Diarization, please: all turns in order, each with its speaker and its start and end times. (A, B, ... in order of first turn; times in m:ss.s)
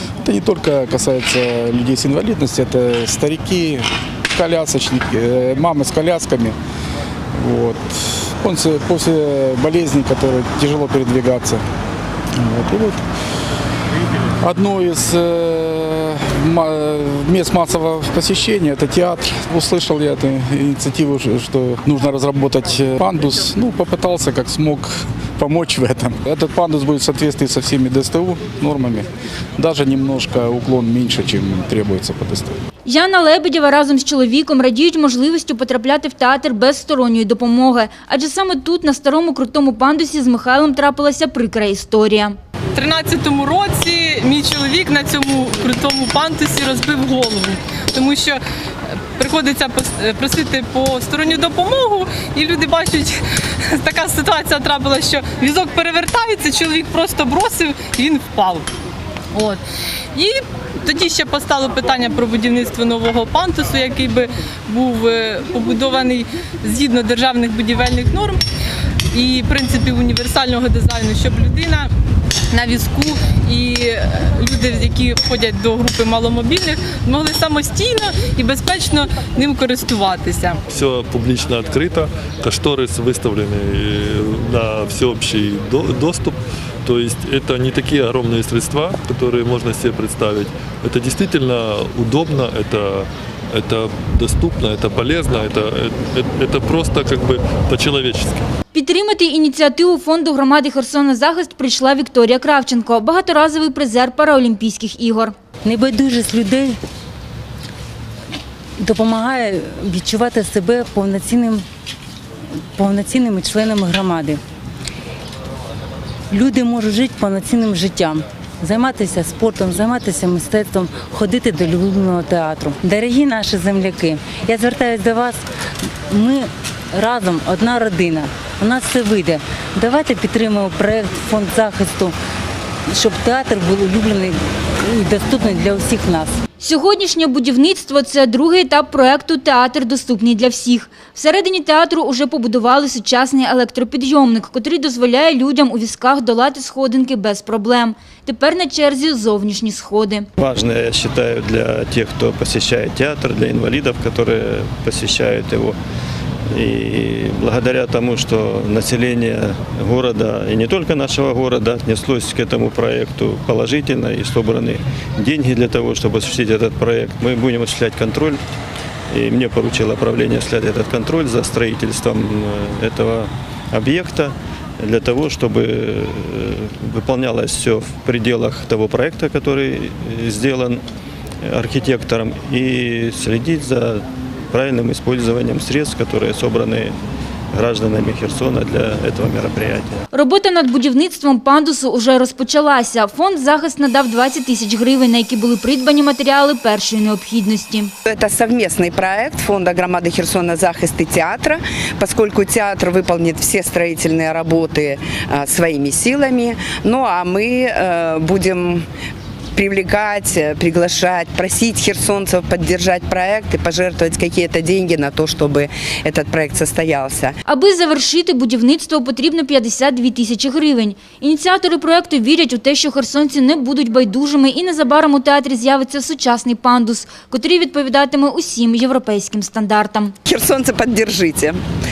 0:00.2-0:06.6 A
0:07.3-0:11.6 A
0:12.4-0:13.0 A
0:14.4-0:32.6 A
0:32.8-0:42.3 B
0:42.7-0:48.4 C
0:49.2-0:58.7 C
0:59.3-0:59.6 C
1:00.1-1:08.4 C
1:09.1-1:11.9 C
1:12.5-1:20.6 C
1:20.7-1:38.4 D
1:38.7-1:45.3 B
1:45.6-1:46.8 E
1:48.8-1:51.6 E
1:52.8-1:54.4 E
1:56.3-2:05.5 E
2:06.1-2:12.2 E
2:12.9-2:16.4 E
2:16.6-2:30.3 B
2:30.4-2:35.8 F
2:36.5-2:48.4 F
2:49.1-3:00.8 F
3:01.4-3:06.9 F
3:07.5-3:10.0 F
3:10.1-3:17.9 B
3:18.0-3:28.8 G
3:29.5-3:37.4 G
3:37.5-3:50.1 B
3:50.2-3:51.6 G